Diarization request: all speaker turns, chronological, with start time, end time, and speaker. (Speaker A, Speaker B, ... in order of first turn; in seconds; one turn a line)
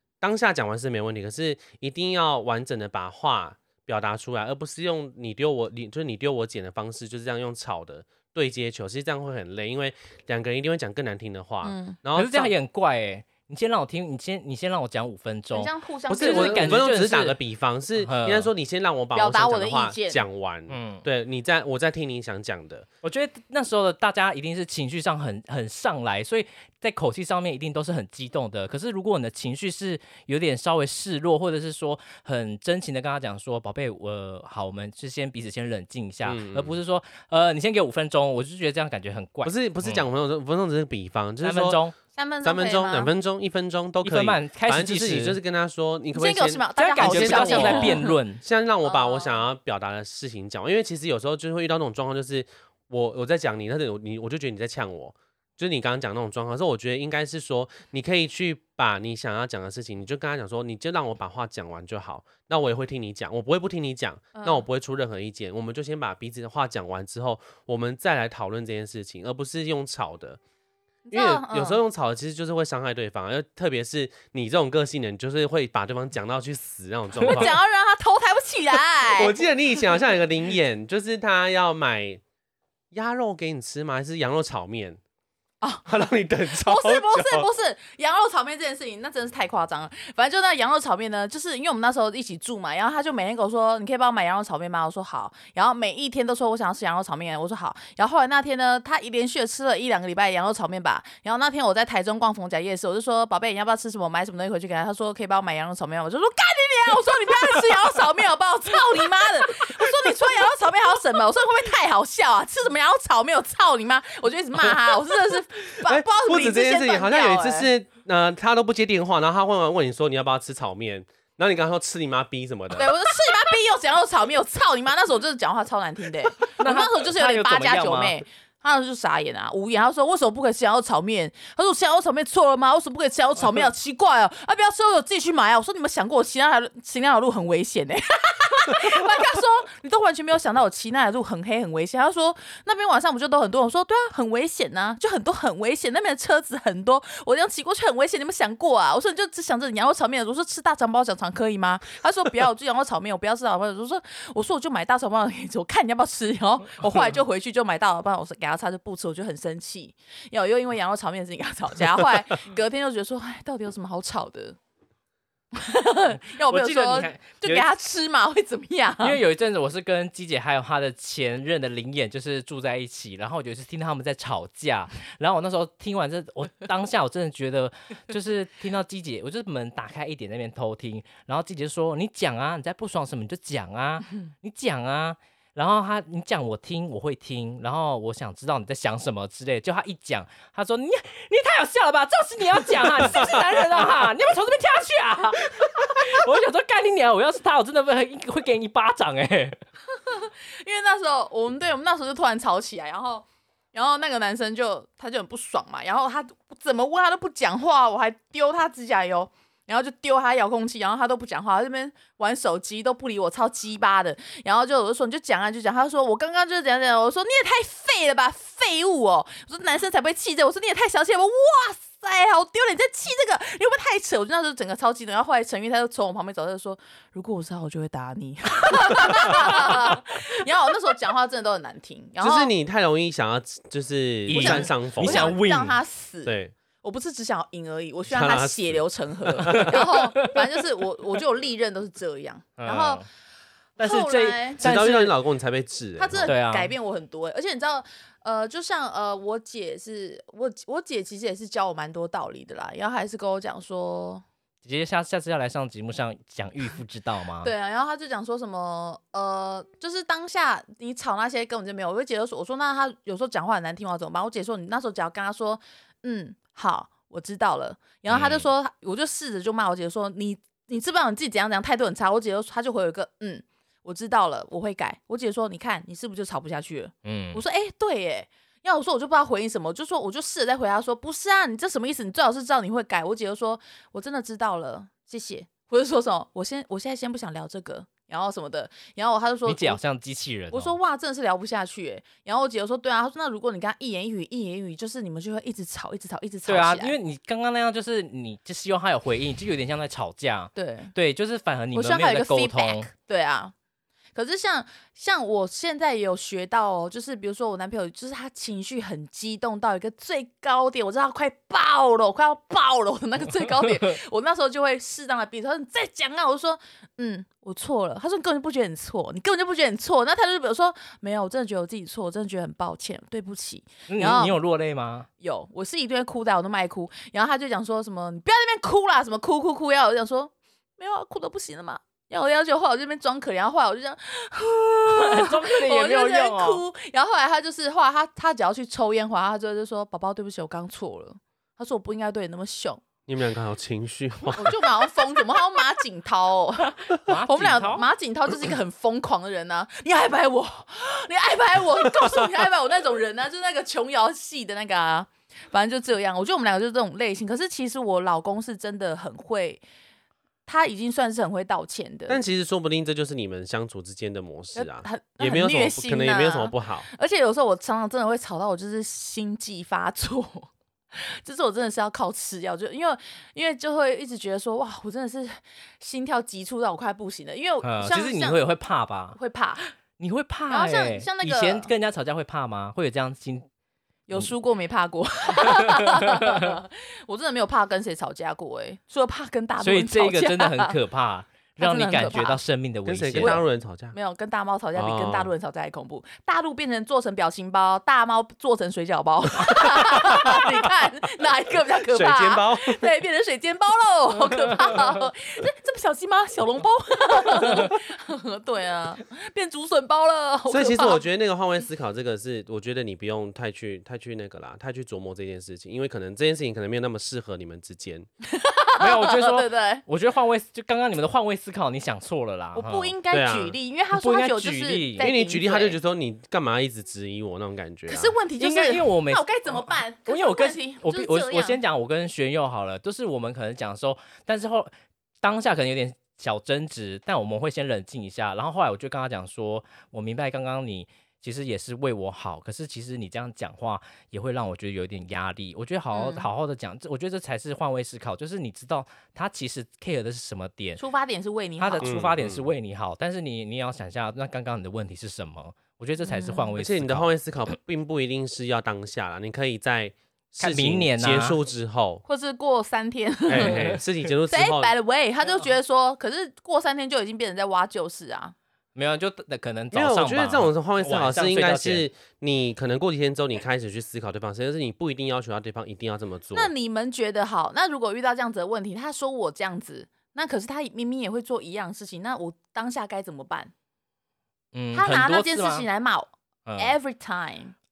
Speaker A: 0.2-12.5
Speaker B: 11.6-12.0
Speaker C: 12.1-17.4
Speaker B: 15.5-16.9
Speaker A: 16.1-22.9
Speaker C: 18.0-18.5
Speaker B: 19.1-20.2
Speaker C: 20.7-21.0
Speaker C: 23.0-40.0
Speaker A: 36.2-36.8
Speaker A: 39.4-41.8
Speaker C: 41.4-41.9
Speaker B: 42.1-43.1
Speaker A: 42.4-70.4
Speaker C: 44.0-45.4
Speaker B: 46.1-48.2
Speaker C: 46.8-48.4
Speaker B: 48.8-49.4
Speaker B: 64.3-64.6
Speaker B: 71.0-71.8
Speaker A: 71.1-77.5
Speaker B: 77.2-79.4
Speaker A: 79.2-82.2
Speaker A: 82.9-85.0
Speaker B: 85.6-85.9
Speaker A: 85.8-87.5
Speaker B: 86.5-117.7
Speaker A: 115.8-122.9
Speaker B: 122.7-164.6
Speaker C: 126.6-128.2
Speaker B: 165.5-169.2
Speaker C: 166.4-167.7
Speaker C: 169.0-199.6
Speaker B: 199.9-232.5
Speaker A: 232.2-235.3
Speaker C: 234.3-235.8
Speaker B: 234.3-243.0
Speaker A: 236.2-236.5
Speaker A: 238.1-239.8
Speaker C: 239.5-240.5
Speaker C: 242.6-243.0
Speaker B: 243.8-244.6
Speaker C: 243.8-245.1
Speaker A: 244.6-246.3
Speaker B: 246.0-254.2
Speaker C: 246.2-246.7
Speaker C: 254.6-257.5
Speaker B: 257.4-289.8
Speaker C: 268.1-268.5
Speaker C: 277.0-277.4
Speaker C: 289.4-290.8
Speaker B: 290.5-296.9
Speaker C: 296.4-302.9
Speaker B: 300.6-300.9
Speaker B: 301.7-303.5
Speaker B: 304.1-324.4
Speaker C: 323.9-325.1
Speaker B: 325.2-342.8
Speaker C: 334.9-336.6
Speaker A: 343.1-344.6
Speaker B: 344.4-359.6
Speaker C: 347.0-347.9
Speaker B: 360.4-362.2
Speaker A: 362.1-366.9
Speaker B: 364.5-378.5
Speaker C: 377.6-379.2
Speaker B: 379.1-379.6
Speaker C: 380.0-383.5
Speaker B: 380.5-381.7
Speaker B: 384.1-390.7
Speaker C: 385.7-386.4
Speaker C: 389.6-393.4
Speaker B: 391.6-392.4
Speaker A: 392.9-393.9
Speaker B: 393.2-411.0
Speaker A: 394.8-395.3
Speaker A: 399.9-400.5
Speaker A: 401.9-402.8
Speaker A: 410.5-418.1
Speaker B: 418.2-419.8
Speaker C: 418.8-422.9
Speaker B: 422.5-425.8
Speaker A: 423.1-423.6
Speaker C: 423.9-425.1
Speaker A: 425.0-428.1
Speaker B: 427.9-431.6
Speaker C: 428.4-434.7
Speaker C: 435.2-450.8
Speaker B: 445.9-446.3
Speaker B: 450.8-451.9
Speaker C: 451.6-457.1
Speaker A: 451.8-452.5
Speaker B: 456.0-456.5
Speaker A: 456.6-462.0
Speaker C: 460.4-461.4
Speaker B: 462.1-463.8
Speaker A: 463.3-464.7
Speaker C: 463.3-463.8
Speaker B: 464.3-468.3
Speaker C: 468.7-471.8
Speaker A: 469.7-476.5
Speaker B: 476.3-483.5
Speaker C: 484.5-485.7
Speaker B: 484.7-487.5
Speaker C: 486.4-486.8